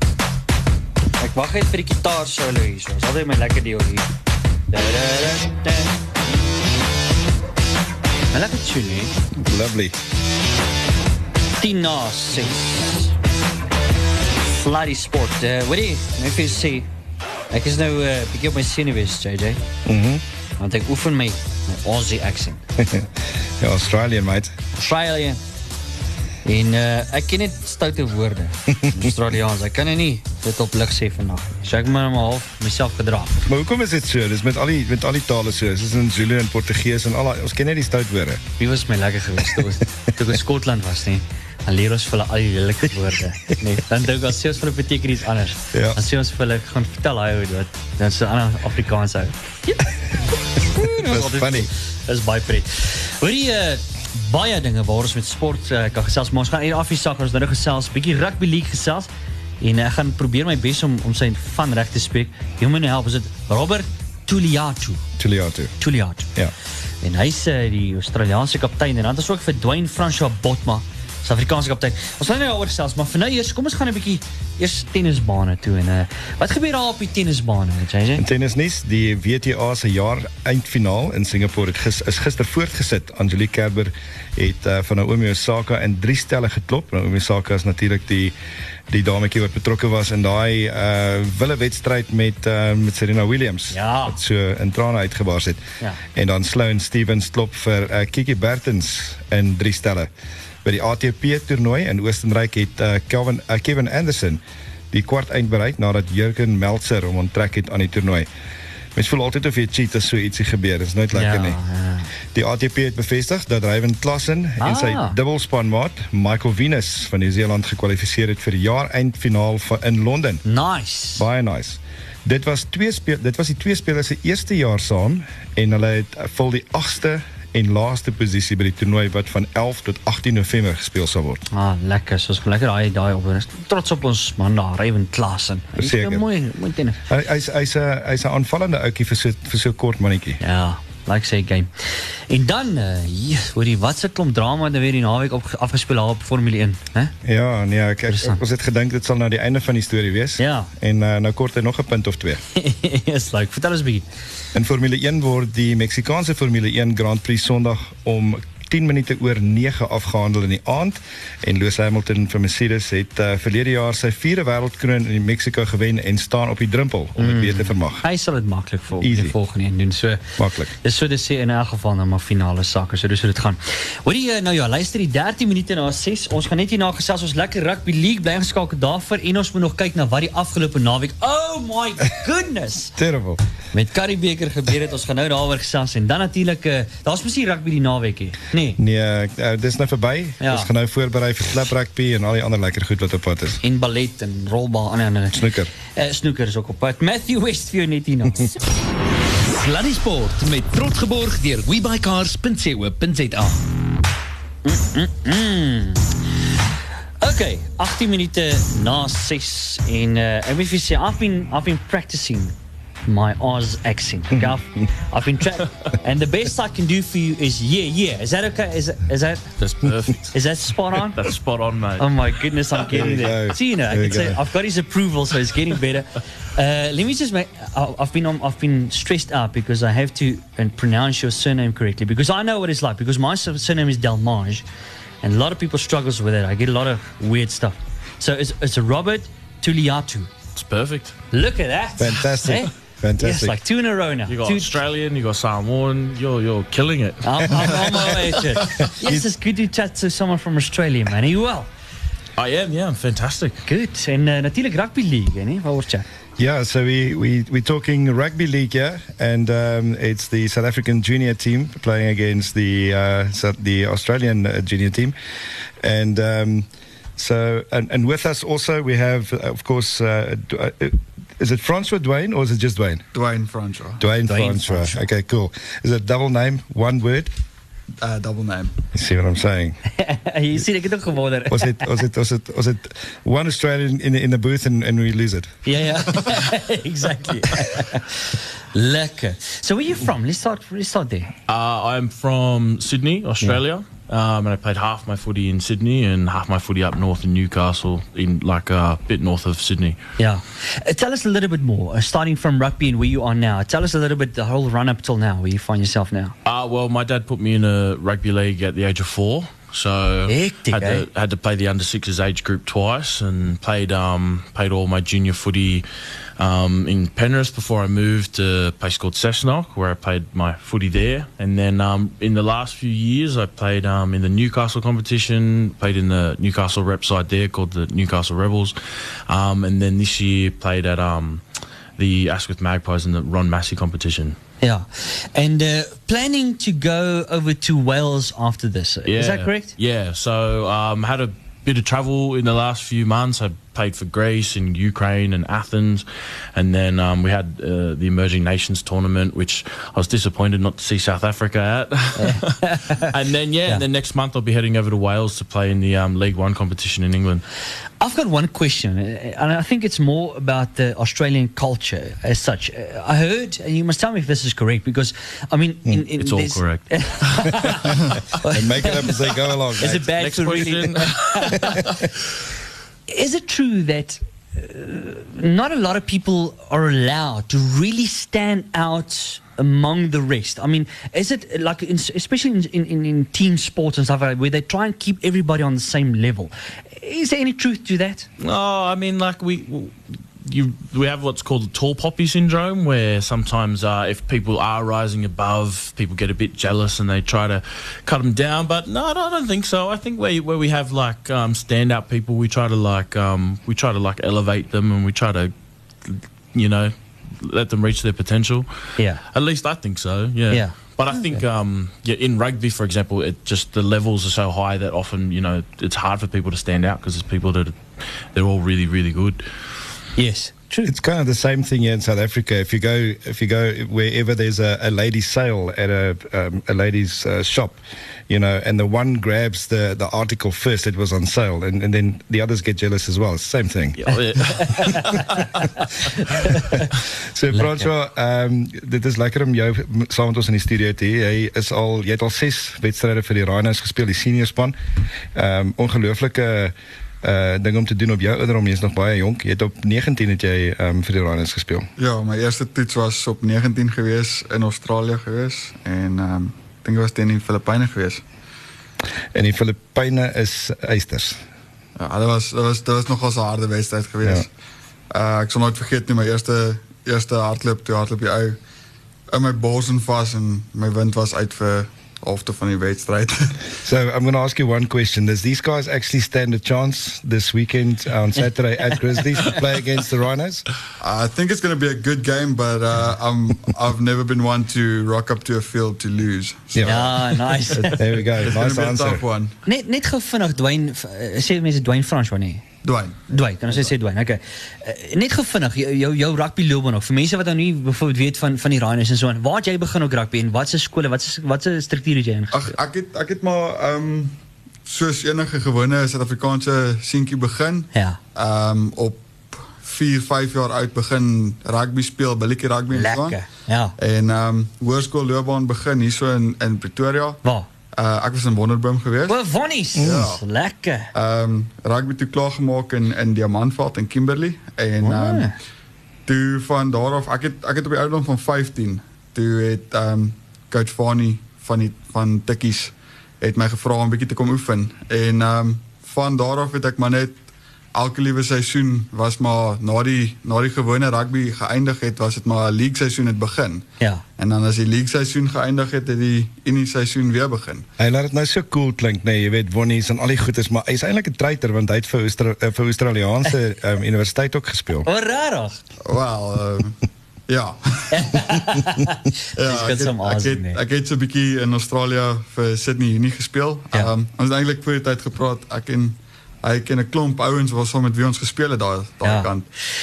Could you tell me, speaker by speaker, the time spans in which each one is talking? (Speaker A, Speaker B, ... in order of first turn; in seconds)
Speaker A: 1.2-4.1, 4.7-6.0, 8.3-9.1, 11.6-13.1, 14.4-16.9, 17.5-19.6, 20.6-22.6, 24.7-25.4, 26.4-33.4, 38.6-49.9, 50.5-59.1, 59.6-65.0, 65.8-66.3, 67.0-78.2, 93.7-94.2, 111.1-112.1, 114.6-115.2, 120.4-121.2, 131.5-137.0, 140.4-141.7, 142.3-147.1, 148.1-148.4, 150.4-150.7, 152.5-154.0, 167.2-182.9, 183.7-188.8, 190.4-190.7, 193.6-198.5, 204.6-206.2, 207.2-212.5, 213.0-219.5, 220.3-221.3, 222.0-234.7, 235.2-240.3, 241.3-244.7, 247.2-251.7, 253.7-256.1, 274.2-275.1, 280.0-282.0, 285.6-288.1, 288.7-291.3, 300.2-306.3, 310.3-311.1, 334.6-339.7, 352.2-353.1, 358.0-371.8, 373.1-388.3, 410.5-410.8, 420.1-420.9, 434.6-435.0, 436.3-436.8, 437.5-437.9, 486.8-488.0, 489.6-492.6, 493.3-502.7, 507.9-508.2, 512.9-514.0, 519.3-521.1, 525.0-525.5, 555.0-555.8, 558.1-560.8, 569.2-569.5
Speaker B: 9.4-9.9, 19.9-20.2, 22.8-24.5, 33.5-38.4, 45.7-46.0, 50.8-51.7, 65.2-65.7, 78.2-88.3, 88.9-95.6, 96.1-100.1, 100.6-108.3, 109.0-111.6, 112.3-120.4, 121.2-131.4, 135.8-136.2, 137.1-140.4, 147.2-152.4, 154.5-168.0, 169.0-169.3, 170.4-170.7, 183.0-183.4, 188.8-193.6, 195.3-195.7, 222.9-224.4, 242.0-243.6, 249.0-249.2, 256.4-265.1, 265.8-273.0, 274.0-277.3, 278.9-279.8, 281.5-285.5, 368.5-370.1, 420.8-434.0, 436.7-444.7, 445.3-451.9, 459.3-461.4, 473.8-480.6, 486.7-487.1, 487.8-489.2, 520.0-520.2, 548.0-555.1
Speaker C: 199.4-203.6
Speaker D: 219.6-220.3, 220.9-222.1, 240.5-241.2, 244.3-248.8, 252.4-253.6, 291.5-300.0, 306.4-315.8, 316.4-328.7, 329.3-331.4, 332.0-334.4, 339.1-357.4, 366.2-368.1, 370.1-372.1, 388.4-405.5, 406.0-408.7, 409.2-417.8, 418.3-419.5, 434.0-435.7
Speaker E: 273.1-274.0, 278.0-278.7, 452.0-458.2, 462.0-464.5, 465.1-468.6, 469.3-473.6, 481.0-489.6, 492.8-493.9, 502.5-513.4, 514.0-517.4, 517.9-519.4, 520.0-520.4, 521.1-525.5, 526.2-537.4, 537.9-543.9, 544.4-547.9, 556.0-558.7, 559.5-569.7